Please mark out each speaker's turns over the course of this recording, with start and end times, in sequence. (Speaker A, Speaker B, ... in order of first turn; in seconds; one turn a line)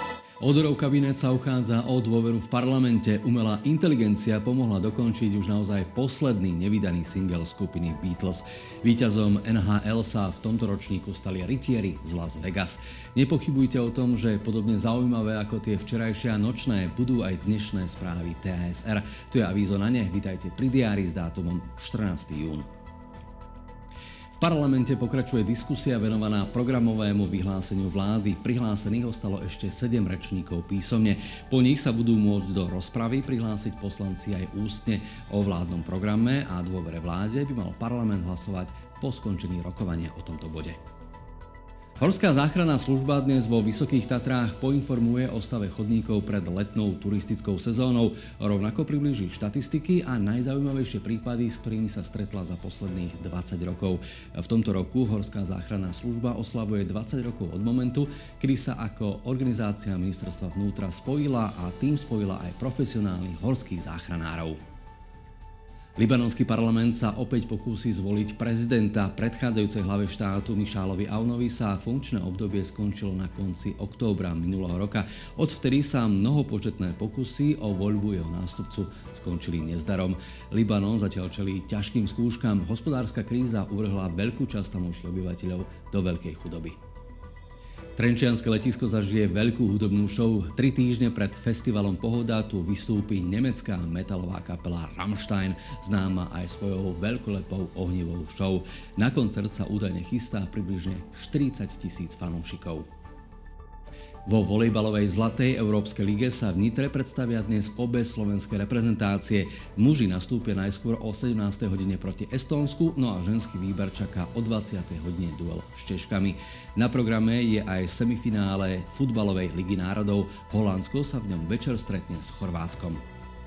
Speaker A: 0.4-22.7
Speaker A: 24.4-40.8
Speaker A: 42.0-64.6
Speaker A: 66.0-86.8
Speaker A: 88.0-102.8
Speaker A: 104.3-123.0